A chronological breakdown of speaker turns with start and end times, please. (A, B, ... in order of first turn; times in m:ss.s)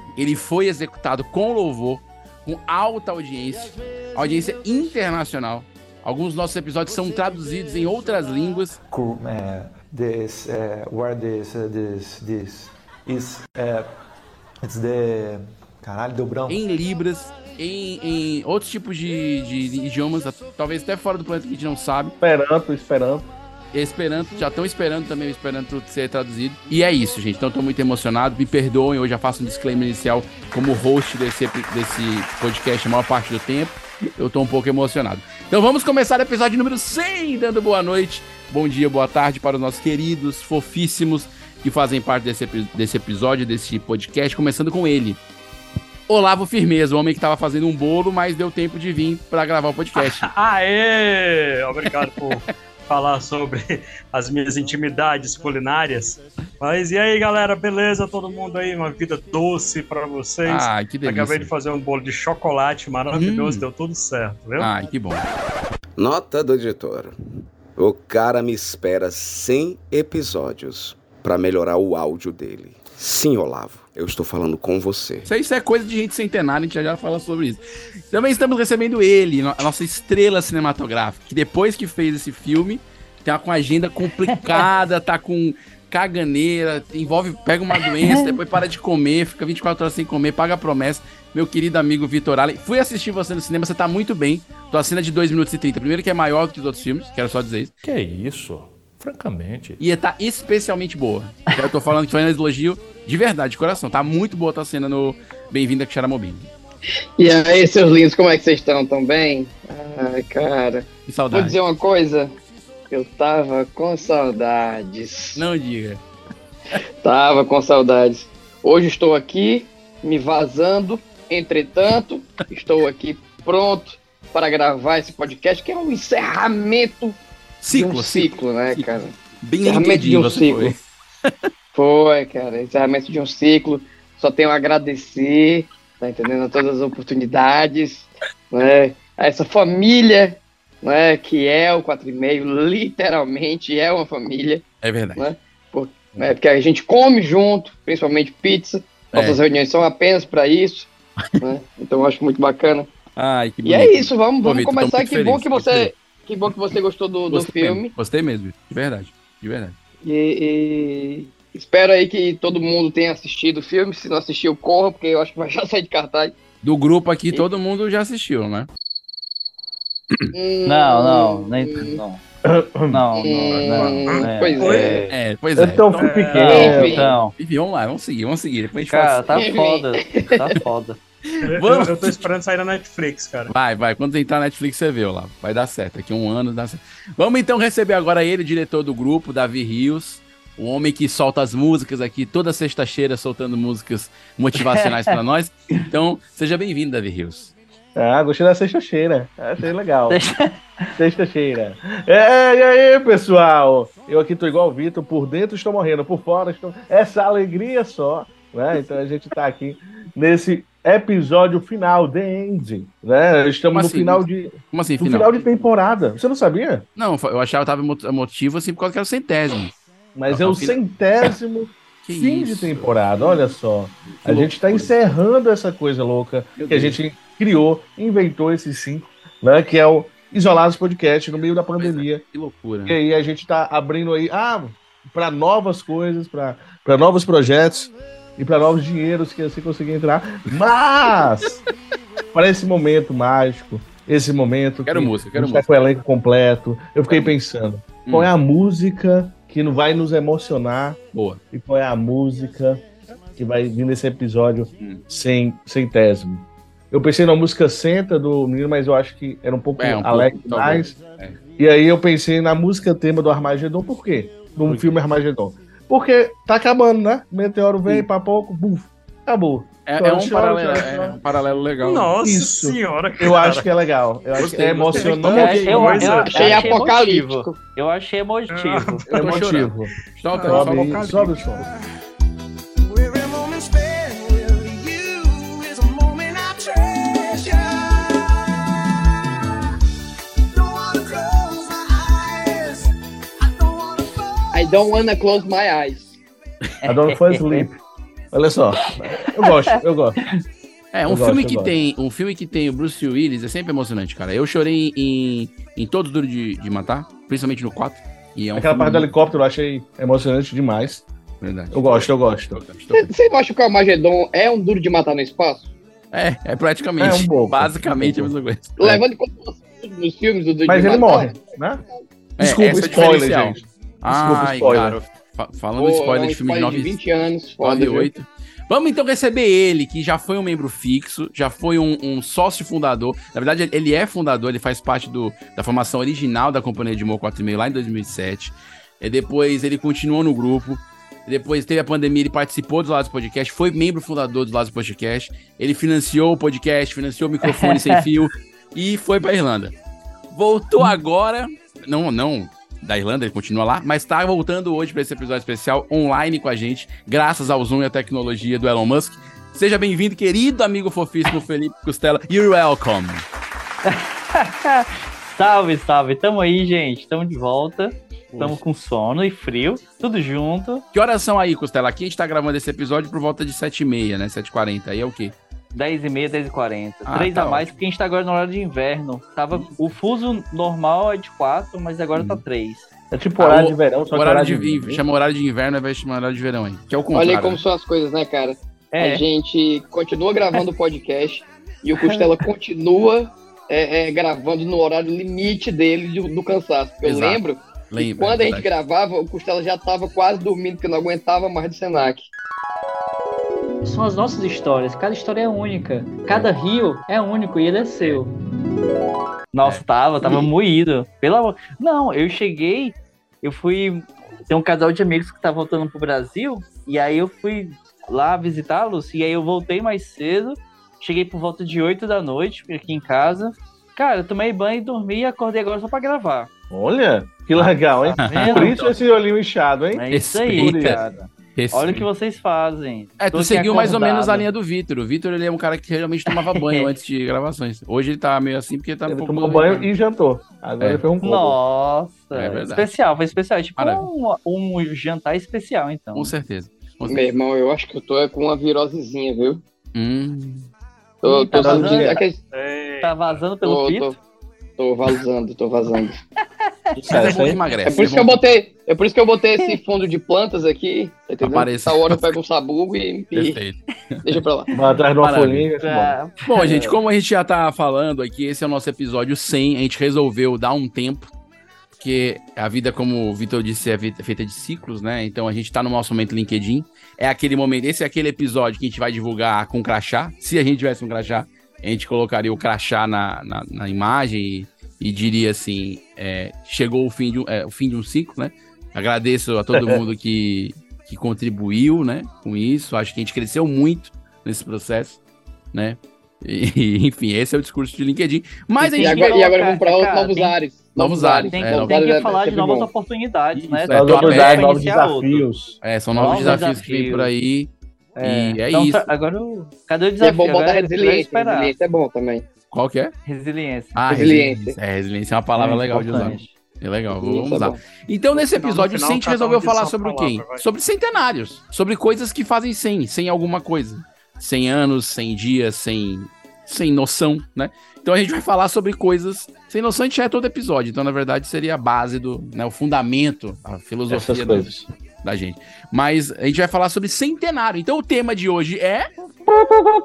0:00.2-0:08.8 A
0:08.9-0:13.9 B
0:14.6-0:16.6 B
0:16.5-0:22.1 A
0:22.2-0:23.3 C
0:23.7-0:45.2 A
0:46.1-0:50.3 A
0:50.0-1:04.7 D
1:00.4-1:01.5 A
1:03.1-1:03.6 A
1:04.6-1:05.2 A
1:06.0-1:07.1 E
1:07.8-1:15.3 E
1:15.2-1:37.7 A
1:24.3-1:24.7 F
1:27.7-1:28.4 F
1:37.8-1:39.8 G
1:39.8-1:46.5 A
1:47.2-1:52.3 H
1:51.1-1:51.6 A
1:52.9-1:55.4 H
1:55.4-1:56.0 A
1:56.8-2:07.2 H
2:07.6-2:08.9 A
2:07.7-2:10.7 H
2:09.4-2:11.3 A
2:11.7-2:24.6 H
2:24.8-2:25.2 A
2:25.2-2:30.9 H
2:29.1-2:29.4 A
2:31.4-2:32.9 H
2:33.2-2:35.9 A
2:33.6-2:37.9 H
2:37.3-2:39.7 A
2:40.0-2:46.3 H
2:46.6-2:48.7 A
2:50.3-2:52.0 H
2:50.6-2:52.2 F
2:52.4-2:53.0 C
2:52.9-2:55.1 F
2:53.1-2:55.0 H
2:53.5-2:53.9 A
2:54.0-2:55.1 D
2:55.1-2:56.1 A
2:55.6-2:57.1 C
2:56.0-2:56.9 D
2:56.3-2:57.3 F
2:56.4-2:57.2 H
2:57.3-2:59.4 A
2:58.8-3:01.0 F
2:59.3-3:00.6 H
3:01.3-3:02.2 A
3:01.4-3:03.5 D
3:03.5-3:17.5 A
3:14.6-3:15.1 F
3:18.0-3:20.2 C
3:20.1-3:21.0 F
3:21.0-3:36.8 C
3:33.7-3:35.6 A
3:37.0-3:39.7 A
3:40.1-3:52.2 C
3:40.3-3:41.3 A
3:42.0-3:43.5 A
3:44.1-3:45.0 A
3:46.6-3:47.0 A
3:51.8-3:53.0 A
3:52.8-4:01.6 C
4:02.3-4:11.0 C
4:04.8-4:05.7 A
4:08.0-4:08.3 A
4:11.1-4:11.4 A
4:11.5-4:12.8 C
4:13.4-4:21.0 C
4:19.8-4:21.4 A
4:21.6-4:31.2 C
4:29.8-4:32.1 A
4:31.8-4:33.7 D
4:32.2-4:35.8 C
4:34.4-4:36.1 A
4:34.9-4:36.6 D
4:35.3-4:39.0 F
4:36.2-4:37.5 H
4:38.5-4:39.0 D
4:39.1-4:41.6 C
4:39.1-4:41.2 A
4:40.3-4:41.4 D
4:41.5-4:41.8 I
4:42.8-4:48.4 I
4:50.5-4:55.2 I
4:54.5-4:56.2 H
4:56.8-4:57.7 F
4:56.8-4:57.8 C
4:58.3-5:00.2 C
4:59.4-4:59.7 F
5:00.9-5:09.1 A
5:01.1-5:01.7 C
5:08.5-5:11.0 C
5:11.4-5:13.1 A
5:11.7-5:12.6 C
5:12.9-5:15.7 H
5:16.1-5:19.0 A
5:17.0-5:18.4 C
5:18.8-5:21.4 H
5:20.7-5:21.8 C
5:22.4-5:26.9 A
5:22.4-5:25.0 C
5:25.8-5:28.1 H
5:27.6-5:49.7 A
5:47.4-5:48.0 F
5:50.3-6:03.2 A
6:03.8-6:10.8 F
6:08.3-6:08.6 A
6:10.9-6:15.3 A
6:15.7-6:22.9 F
6:17.0-6:17.7 A
6:22.1-6:22.4 A
6:23.1-6:25.0 C
6:23.4-6:27.6 A
6:27.1-6:42.3 H
6:28.9-6:29.2 F
6:37.0-6:37.4 A
6:37.9-6:38.7 A
6:43.8-6:48.3 J
6:49.5-7:06.5 F
7:06.7-7:11.0 C
7:07.6-7:08.8 F
7:08.2-7:08.9 A
7:09.9-7:14.5 F
7:10.1-7:11.0 A
7:11.6-7:12.1 A
7:13.2-7:19.8 A
7:16.3-7:16.9 F
7:19.1-7:21.6 C
7:21.2-7:26.3 F
7:22.3-7:22.9 A
7:23.8-7:24.1 A
7:26.1-7:27.2 A
7:27.1-7:29.6 H
7:29.9-7:30.7 A
7:31.2-7:32.4 H
7:31.2-7:32.2 F
7:31.5-7:32.2 C
7:32.5-7:33.4 D
7:33.0-7:34.2 F
7:33.6-7:34.2 H
7:34.8-7:36.2 H
7:37.0-7:37.6 C
7:37.1-7:38.4 A
7:37.1-7:37.8 D
7:37.8-7:43.6 H
7:41.4-7:42.3 A
7:43.3-7:44.2 A
7:44.2-7:44.7 H
7:44.7-7:46.1 C
7:45.2-7:45.7 A
7:45.8-7:47.0 F
7:46.4-7:51.3 A
7:52.0-8:15.2 A
8:09.7-8:10.0 C
8:15.7-8:19.3 A
8:18.8-8:20.6 F
8:19.0-8:22.9 H
8:21.0-8:22.0 A
8:21.5-8:25.5 F
8:23.5-8:24.7 A
8:23.9-8:26.7 C
8:25.8-8:29.1 A
8:26.2-8:27.3 F
8:28.2-8:31.7 F
8:30.2-8:32.4 H
8:32.7-8:33.1 A
8:33.2-8:33.9 F
8:33.9-8:59.1 A
8:34.1-8:34.8 H
8:35.6-8:36.5 F
8:37.1-8:37.8 H
8:38.3-8:40.6 D
8:54.1-8:54.8 C